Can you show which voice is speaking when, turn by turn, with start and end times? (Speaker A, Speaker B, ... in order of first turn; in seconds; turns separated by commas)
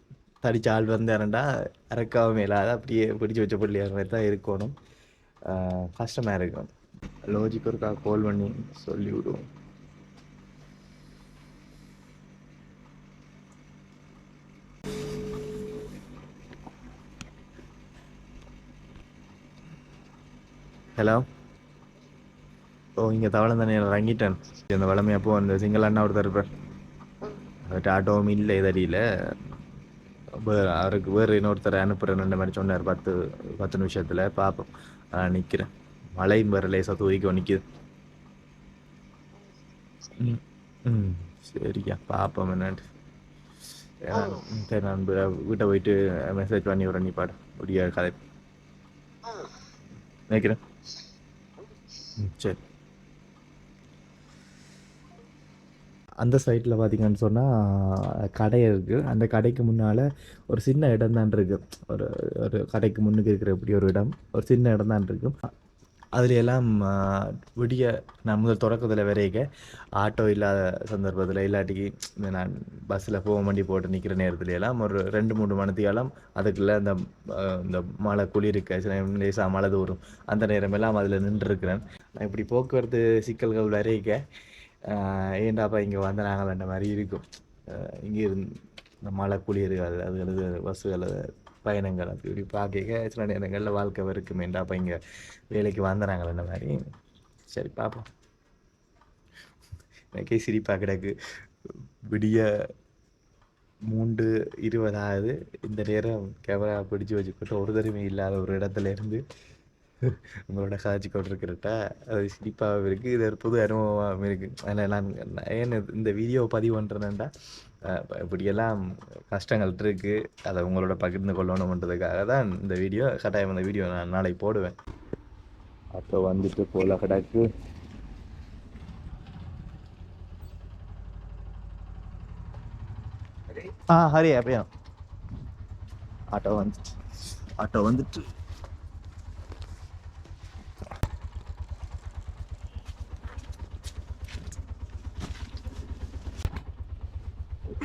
Speaker A: 0.4-4.7, Speaker A: 5.5-6.7, Speaker A: 7.3-9.4, Speaker A: 21.0-21.2, Speaker A: 23.0-26.5, Speaker A: 27.7-29.0, Speaker A: 30.4-37.6, Speaker A: 40.2-42.8, Speaker A: 44.1-48.2, Speaker A: 50.3-50.6, Speaker A: 52.2-52.6, Speaker A: 56.2-65.3, Speaker A: 66.2-69.5, Speaker A: 70.0-84.2, Speaker A: 84.9-88.5, Speaker A: 89.0-95.0, Speaker A: 95.5-96.8, Speaker A: 97.5-98.1, Speaker A: 100.1-101.1, Speaker A: 102.1-102.5, Speaker A: 103.9-109.2, Speaker A: 110.0-117.3, Speaker A: 117.9-118.8, Speaker A: 119.3-124.8, Speaker A: 125.9-127.4, Speaker A: 133.6-134.7, Speaker A: 136.3-136.9, Speaker A: 137.6-138.3